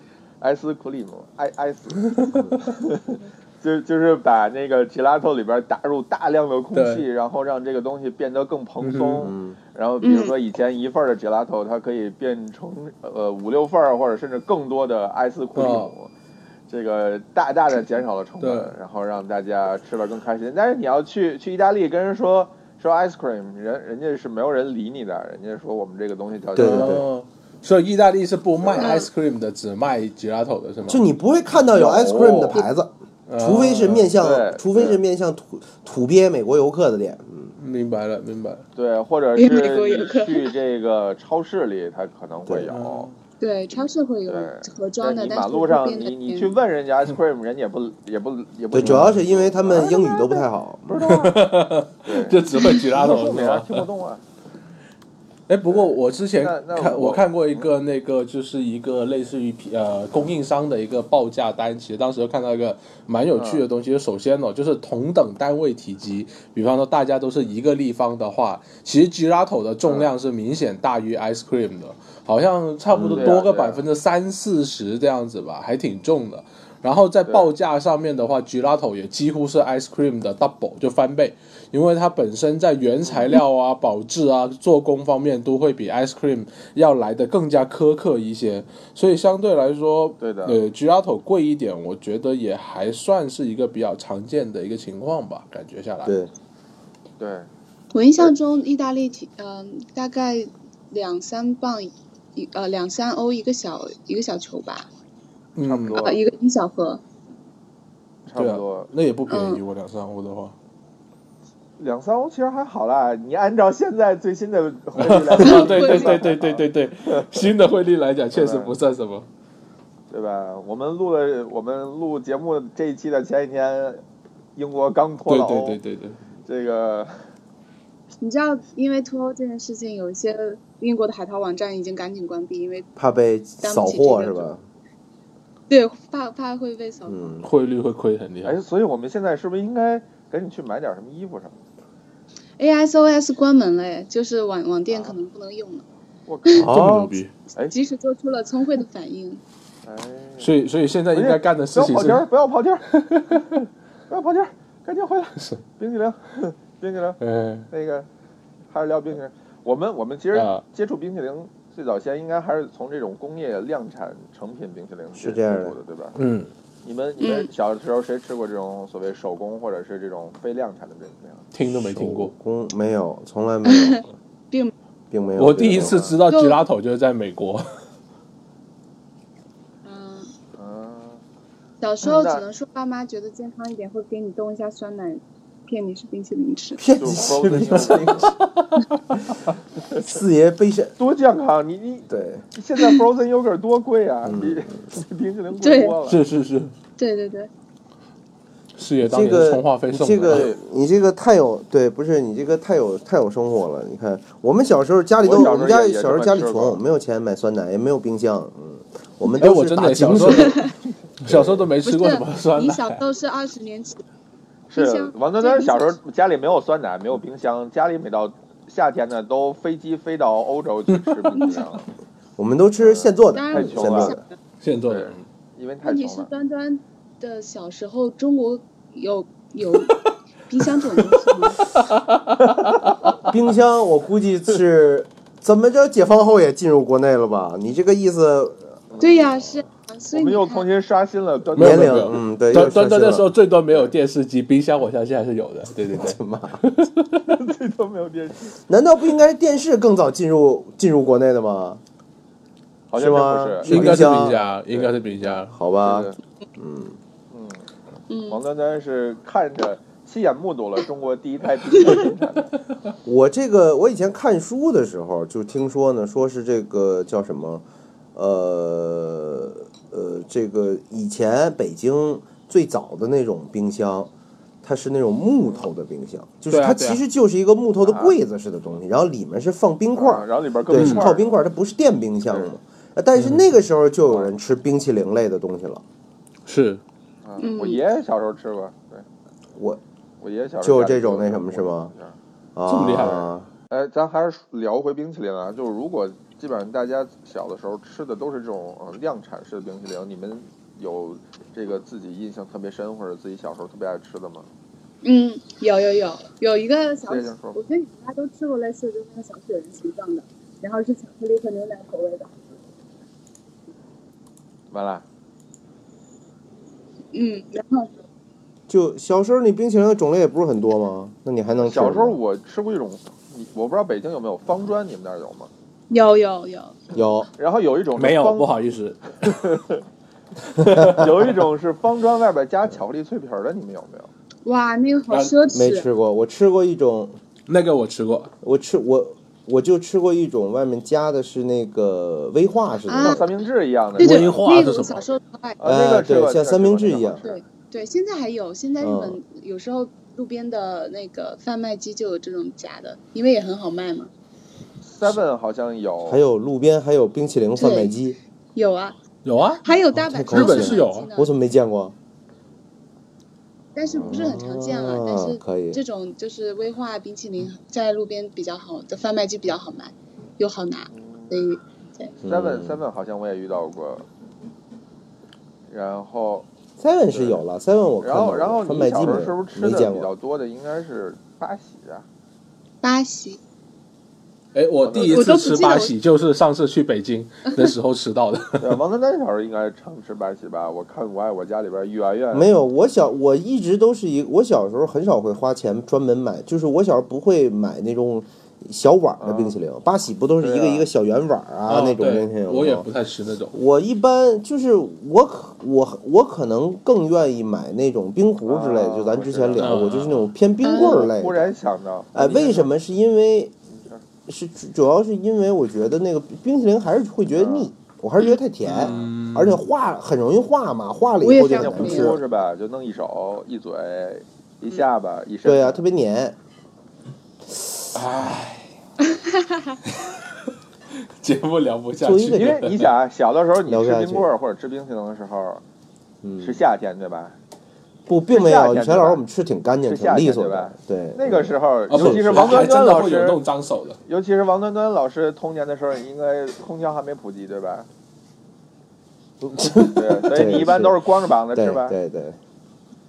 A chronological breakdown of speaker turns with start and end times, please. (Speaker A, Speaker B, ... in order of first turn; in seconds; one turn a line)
Speaker A: 0.4-16.1
Speaker B: 6.7-7.0
Speaker B: 8.8-9.3
Speaker C: 9.2-9.6
Speaker D: 10.0-10.3
Speaker B: 15.6-15.9
Speaker A: 16.7-27.0
Speaker B: 18.4-18.7
Speaker C: 26.5-27.1
Speaker B: 26.6-31.0
Speaker A: 28.6-29.0
Speaker D: 28.8-29.1
Speaker C: 30.9-37.5
Speaker A: 31.7-32.6
Speaker B: 33.3-34.1
Speaker A: 34.2-35.0
Speaker B: 37.6-38.6
Speaker A: 38.7-43.1
Speaker D: 39.4-40.5
Speaker B: 42.7-43.1
Speaker D: 43.4-46.6
Speaker A: 44.3-49.9
Speaker C: 48.7-51.0
Speaker B: 48.8-49.1
Speaker D: 49.7-50.5
Speaker A: 50.9-51.4
Speaker B: 51.0-53.9
Speaker A: 52.0-54.2
Speaker D: 52.5-52.8
Speaker B: 55.5-96.2
Speaker A: 55.7-57.6
Speaker A: 63.3-63.6
Speaker C: 72.9-73.3
Speaker A: 73.2-73.8
Speaker A: 83.0-83.4
Speaker A: 90.2-90.6
Speaker C: 96.0-96.3
Speaker A: 97.2-97.5
Speaker D: 97.9-104.9
Speaker B: 105.5-106.0
Speaker A: 105.6-106.2
Speaker D: 106.0-107.0
Speaker A: 108.2-108.9
Speaker B: 108.3-110.5
Speaker D: 109.3-109.6
Speaker A: 111.8-117.5
Speaker B: 115.0-119.2
Speaker D: 115.4-116.2
Speaker A: 118.3-118.7
Speaker A: 120.1-124.0
Speaker A: 124.5-125.8
Speaker B: 125.2-126.2
Speaker A: 126.4-127.2
Speaker D: 128.2-132.9
Speaker C: 132.9-134.6
Speaker D: 133.6-134.5
Speaker D: 135.7-137.4
Speaker C: 137.1-137.5
Speaker B: 137.4-138.6
Speaker A: 138.4-141.6
Speaker D: 142.6-145.8
Speaker A: 144.9-145.1
Speaker A: 146.3-146.7
Speaker B: 146.5-147.3
Speaker C: 146.6-147.2
Speaker D: 147.7-149.4
Speaker A: 149.8-150.5
Speaker B: 150.4-152.3
Speaker A: 151.1-152.8
Speaker B: 152.9-153.4
Speaker A: 154.1-158.1
Speaker B: 157.2-157.7
Speaker A: 158.7-166.2
Speaker B: 160.3-160.6
Speaker C: 165.2-165.7
Speaker B: 166.2-166.5
Speaker A: 166.8-171.4
Speaker D: 167.2-167.5
Speaker B: 171.5-172.3
Speaker C: 171.9-174.1
Speaker D: 173.7-174.7
Speaker C: 175.1-176.0
Speaker B: 175.4-177.8
Speaker A: 175.8-176.2
Speaker D: 176.3-176.6
Speaker D: 179.8-180.3
Speaker A: 180.6-181.2
Speaker D: 181.8-186.8
Speaker A: 182.0-182.4
Speaker C: 186.8-188.3
Speaker A: 187.0-188.3
Speaker B: 187.4-188.8
Speaker C: 190.0-190.9
Speaker A: 191.0-196.2
Speaker C: 192.1-192.4
Speaker C: 194.2-194.8
Speaker D: 195.6-196.0
Speaker B: 196.1-196.7
Speaker D: 197.0-197.5
Speaker B: 198.8-200.5
Speaker C: 199.0-210.6
Speaker A: 200.3-200.6
Speaker A: 205.2-206.8
Speaker B: 209.4-210.6
Speaker D: 210.4-210.7
Speaker B: 211.2-213.0
Speaker C: 211.2-211.7
Speaker D: 211.8-214.0
Speaker A: 214.7-221.8
Speaker D: 214.7-215.9
Speaker B: 220.9-221.2
Speaker C: 222.4-224.2
Speaker A: 222.8-224.2
Speaker D: 223.3-224.3
Speaker B: 224.6-225.2
Speaker A: 224.9-226.3
Speaker D: 225.8-231.6
Speaker B: 230.9-232.7
Speaker A: 232.6-233.2
Speaker C: 233.2-238.8
Speaker A: 238.9-239.4
Speaker D: 239.0-240.7
Speaker A: 240.1-242.2
Speaker B: 241.6-247.4
Speaker C: 241.6-243.3
Speaker C: 245.9-246.6
Speaker A: 247.3-248.6
Speaker C: 248.7-251.8
Speaker A: 252.9-256.2
Speaker C: 252.9-254.4
Speaker B: 253.6-255.5
Speaker C: 255.5-257.0
Speaker A: 257.3-257.7
Speaker D: 258.1-258.4
Speaker A: 258.3-262.5
Speaker C: 263.0-267.6
Speaker C: 268.1-274.1
Speaker C: 274.6-285.8
Speaker B: 276.5-277.0
Speaker A: 277.8-278.1
Speaker A: 279.9-281.4
Speaker B: 280.7-281.1
Speaker A: 282.3-282.6
Speaker B: 283.1-283.4
Speaker A: 284.0-284.3
Speaker B: 286.4-286.8
Speaker A: 287.2-289.1
Speaker D: 287.4-287.8
Speaker A: 290.2-292.2
Speaker C: 290.6-291.9
Speaker C: 292.6-293.5
Speaker B: 292.7-293.3
Speaker A: 293.7-304.5
Speaker D: 305.0-312.3
Speaker A: 307.1-307.6
Speaker A: 314.7-315.0
Speaker D: 317.1-318.0
Speaker C: 318.7-322.2
Speaker A: 321.6-325.5
Speaker D: 325.9-326.8
Speaker C: 326.9-327.3
Speaker A: 327.4-328.5
Speaker B: 327.9-329.4
Speaker A: 329.2-329.8
Speaker B: 330.6-331.4
Speaker A: 330.7-334.1
Speaker C: 330.8-331.0
Speaker D: 334.4-335.9
Speaker B: 335.1-335.3
Speaker C: 335.5-337.1
Speaker B: 337.5-338.3
Speaker C: 338.4-343.3
Speaker D: 342.9-343.3
Speaker A: 343.0-344.3
Speaker B: 343.9-345.1
Speaker D: 344.0-345.6
Speaker A: 345.6-347.4
Speaker C: 345.6-347.2
Speaker D: 347.2-354.1
Speaker C: 348.8-349.2
Speaker A: 354.8-356.2
Speaker C: 356.1-358.2
Speaker D: 357.6-357.9
Speaker D: 358.5-359.0
Speaker B: 359.2-359.6
Speaker D: 359.6-361.3
Speaker C: 360.1-361.9
Speaker B: 360.1-361.1
Speaker D: 363.7-372.1
Speaker C: 363.9-365.8
Speaker A: 370.9-371.4
Speaker C: 372.2-372.8
Speaker A: 372.2-374.1
Speaker A: 375.7-376.5
Speaker C: 376.8-380.1
Speaker A: 377.1-377.4
Speaker A: 378.0-382.0
Speaker D: 382.8-383.4
Speaker B: 384.5-388.8
Speaker A: 384.8-385.4
Speaker D: 385.0-385.9
Speaker A: 388.6-392.5
Speaker C: 392.3-402.9
Speaker A: 399.2-399.5
Speaker A: 400.4-400.9
Speaker B: 401.7-403.6
Speaker C: 403.5-411.5
Speaker A: 408.4-409.8
Speaker B: 409.6-410.3
Speaker D: 410.6-411.1
Speaker A: 410.6-412.6
Speaker C: 412.1-413.5
Speaker B: 412.2-412.6
Speaker C: 414.3-422.2
Speaker A: 417.3-417.7
Speaker B: 418.6-419.6
Speaker A: 418.7-419.1
Speaker D: 421.2-422.1
Speaker A: 421.5-425.8
Speaker C: 425.4-426.4
Speaker B: 427.9-428.7
Speaker D: 429.1-429.8
Speaker B: 431.2-432.9
Speaker C: 432.0-432.6
Speaker A: 432.3-435.6
Speaker C: 433.6-434.3
Speaker C: 436.2-436.6
Speaker A: 436.4-437.4
Speaker C: 438.1-442.6
Speaker A: 438.3-439.2
Speaker A: 439.9-443.4
Speaker B: 441.9-444.0
Speaker A: 444.0-447.9
Speaker C: 449.4-451.0
Speaker A: 449.8-451.9
Speaker C: 451.5-452.4